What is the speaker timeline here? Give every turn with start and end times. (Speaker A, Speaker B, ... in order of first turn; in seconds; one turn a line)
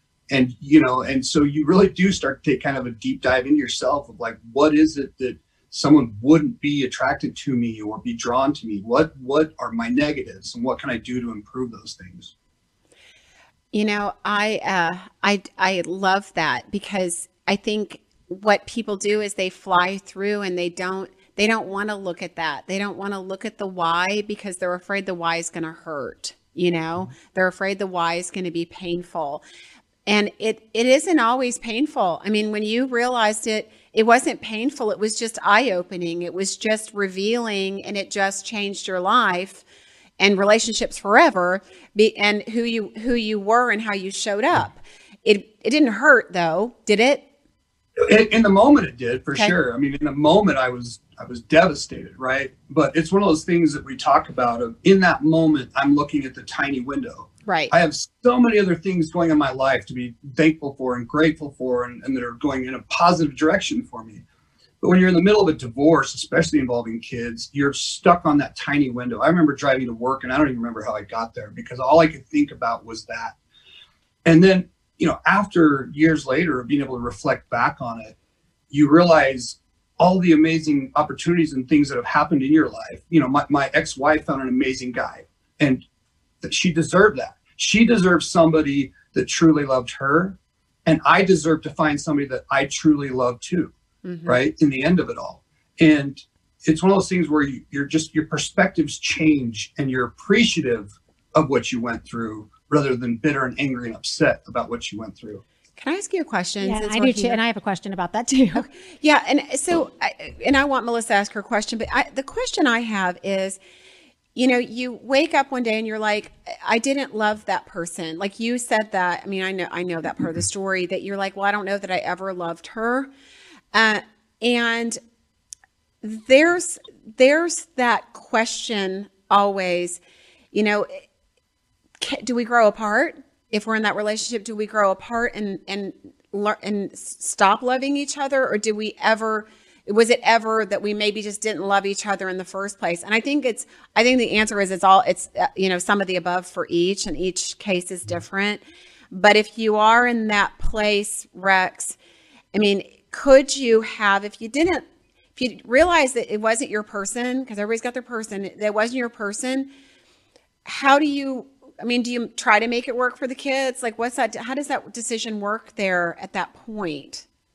Speaker A: 0.3-12.3
Speaker B: 13.7-29.4
Speaker B: 30.1-39.6
Speaker B: 40.2-47.2
Speaker A: 48.0-64.2
Speaker B: 57.5-57.7
Speaker A: 64.8-73.3
Speaker A: 74.2-78.2
Speaker A: 78.7-85.8
Speaker A: 86.4-93.7
Speaker B: 94.0-94.4
Speaker A: 94.2-105.4
Speaker B: 105.8-107.4
Speaker C: 106.6-108.7
Speaker B: 108.5-113.6
Speaker B: 114.3-123.1
Speaker B: 123.7-125.0
Speaker B: 126.0-130.0
Speaker B: 130.5-131.0
Speaker B: 132.0-152.0
Speaker B: 152.5-154.8
Speaker B: 155.3-159.7
Speaker B: 160.6-167.2